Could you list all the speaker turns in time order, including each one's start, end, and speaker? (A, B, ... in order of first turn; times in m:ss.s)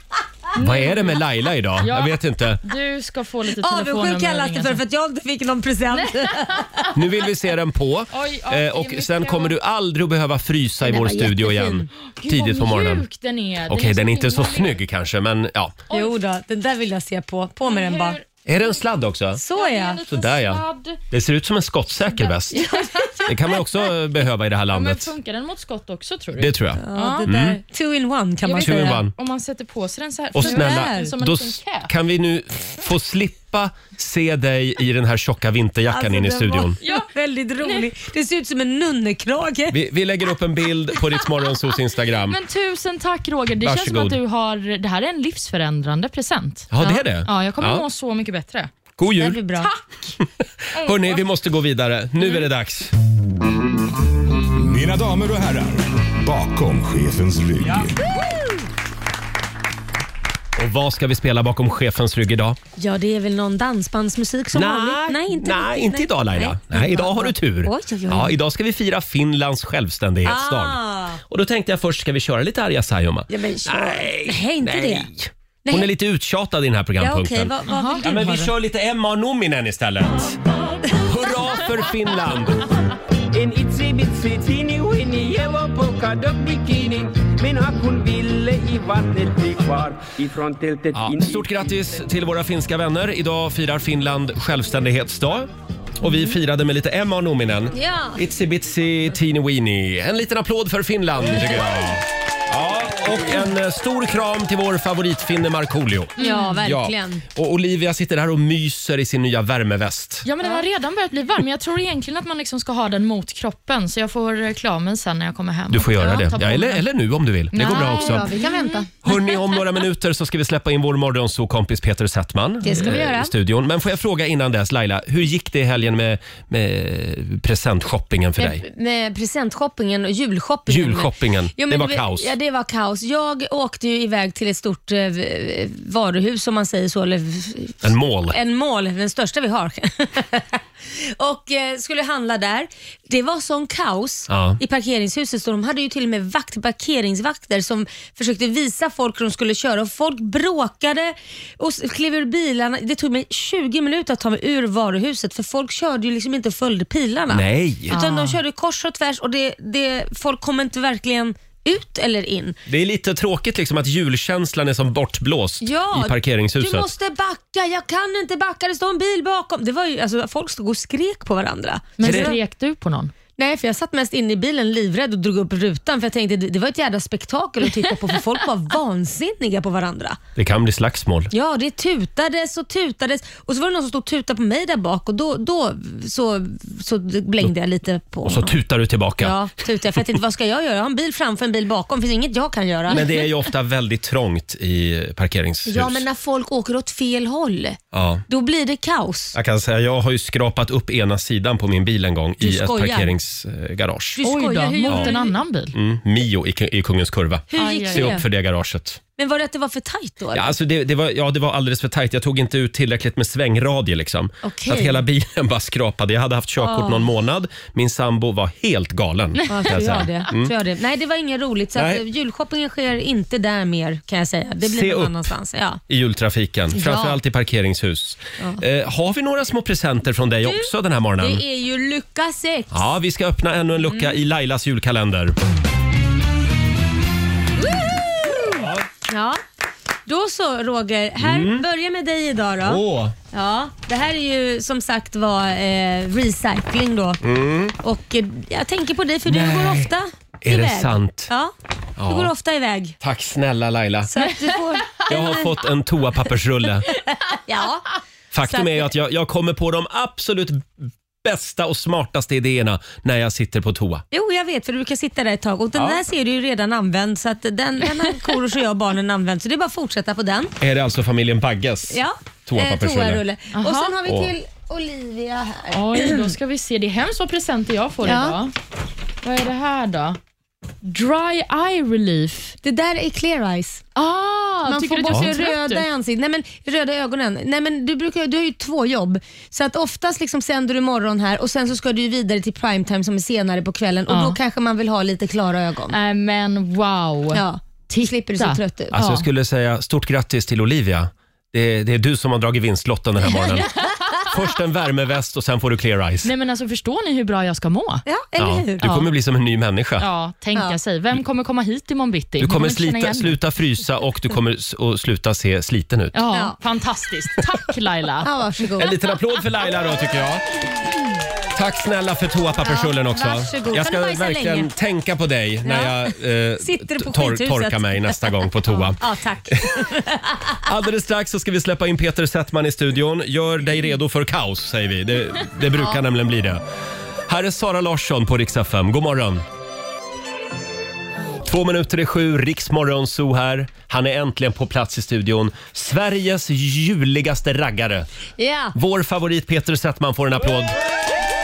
0:00.6-0:01.2 A
0:00.6-0:02.6 B
0:01.8-0:04.8 A
0:03.6-0:06.9 C
0:05.9-0:07.0 A
0:06.9-0:13.0 B
0:08.1-0:09.6 A
0:10.8-0:11.9 C
0:12.2-0:14.8 A
0:13.6-0:15.8 B
0:15.9-0:16.2 A
0:15.9-0:18.2 C
0:17.7-0:18.8 A
0:18.5-0:19.4 B
0:19.4-0:20.0 C
0:19.5-0:21.0 A
0:20.1-0:22.6 B
0:22.1-0:23.3 A
0:22.5-0:23.3 C
0:23.3-0:25.1 B
0:24.7-0:27.3 A
0:26.4-0:27.6 B
0:26.8-0:29.0 C
0:28.4-0:31.9 A
0:28.6-0:29.1 B
0:30.3-0:36.8 B
0:30.4-0:31.1 C
0:35.9-0:39.8 C
0:36.8-0:37.1 A
0:37.6-0:37.9 A
0:39.7-0:42.4 B
0:42.3-0:46.7 A
0:43.6-0:44.2 B
0:46.7-0:47.8 B
0:46.8-0:47.0 C
0:47.2-0:48.9 A
0:49.0-0:49.4 B
0:49.2-0:49.7 C
0:49.6-0:50.1 A
0:50.8-0:52.9 B
0:50.9-0:51.2 C
0:54.6-0:58.0 D
0:58.1-0:58.6 C
1:00.6-1:02.6 B
1:02.8-1:08.4 C
1:04.5-1:20.4 B
1:10.2-1:11.2 C
1:13.3-1:15.1 C
1:15.6-1:15.9 C
1:17.0-1:18.5 C
1:17.7-1:18.4 A
1:21.0-1:22.7 B
1:23.3-1:31.8 E
1:30.9-1:35.5 B
1:36.0-1:50.3 B
1:36.1-1:36.3 C
1:37.7-1:38.2 C
1:46.2-1:46.6 A
1:46.2-1:47.2 C
1:50.2-1:56.8 A
1:55.7-1:58.3 B
1:56.0-1:56.3 C
1:57.5-1:58.9 A
1:57.6-1:58.9 C
1:59.0-2:08.6 B
2:02.6-2:03.3 C
2:08.4-2:42.6 C
2:10.7-2:12.3 B
2:17.8-2:18.4 B
2:24.3-2:24.6 B
2:37.3-2:38.0 B
2:37.9-2:38.4 A
2:42.7-2:46.9 B
2:45.6-2:52.4 C
2:52.0-2:53.1 A
2:52.0-2:52.4 B
2:53.4-3:00.2 C
2:57.9-2:58.2 A
3:00.4-3:01.3 B
3:01.3-3:08.6 C
3:08.2-3:09.4 B
3:09.2-3:13.1 C
3:12.9-3:16.0 B
3:15.7-3:17.8 C
3:17.9-3:18.2 B
3:18.3-3:19.4 C
3:19.4-3:24.2 B
3:22.4-3:23.1 C
3:24.2-3:25.3 C
3:24.2-3:25.8 A
3:24.9-3:25.1 B
3:25.7-3:29.0 B
3:27.5-3:28.2 C
3:27.5-3:28.2 A
3:29.2-3:30.6 C
3:30.3-3:40.5 B
3:34.4-3:35.0 C
3:36.6-3:37.1 C
3:39.4-3:40.2 A
3:39.5-3:45.8 C
3:41.8-3:42.0 B
3:44.6-3:45.3 B
3:45.9-3:51.4 B
3:46.7-3:47.2 C
3:50.4-3:52.9 C
3:52.7-3:55.4 B
3:57.6-3:59.4 C
3:58.4-3:58.9 B
4:00.1-4:02.8 C
4:01.2-4:01.6 B
4:02.6-4:03.2 B
4:03.3-4:07.2 C
4:07.2-4:07.8 B
4:07.8-4:11.5 C
4:09.3-4:09.9 B
4:10.4-4:11.3 B
4:12.0-4:12.3 B
4:12.0-4:13.0 C
4:13.0-4:14.1 B
4:14.1-4:15.4 C
4:15.1-4:16.9 B
4:16.9-4:17.9 C
4:18.3-4:20.7 B
4:18.4-4:18.9 C
4:21.2-4:24.0 B
4:24.1-4:30.5 C
4:30.6-4:33.2 B
4:31.9-4:36.3 C
4:33.5-4:34.0 A
4:34.1-4:34.3 B
4:35.7-4:38.5 A
4:38.0-4:38.4 C
4:39.2-4:40.2 A
4:40.8-4:42.6 A
4:42.6-4:43.8 C
4:44.0-4:45.9 A
4:44.6-4:56.0 C
4:54.1-4:54.4 A
4:55.9-4:59.2 A
4:57.3-4:59.0 C
4:58.9-5:03.7 B
5:03.3-5:04.0 C
5:04.2-5:06.3 B
5:06.2-5:08.0 A
5:08.1-5:09.0 C
5:08.4-5:10.1 B
5:10.0-5:13.4 A
5:12.4-5:16.2 B
5:16.1-5:18.3 A
5:18.2-5:18.9 C
5:18.8-5:20.6 B
5:21.6-5:29.8 B
5:22.6-5:24.7 C
5:25.6-5:30.6 C
5:30.6-5:36.6 B
5:37.3-5:39.4 B
5:41.4-5:48.1 B
5:48.4-5:48.8 C
5:48.8-5:50.8 B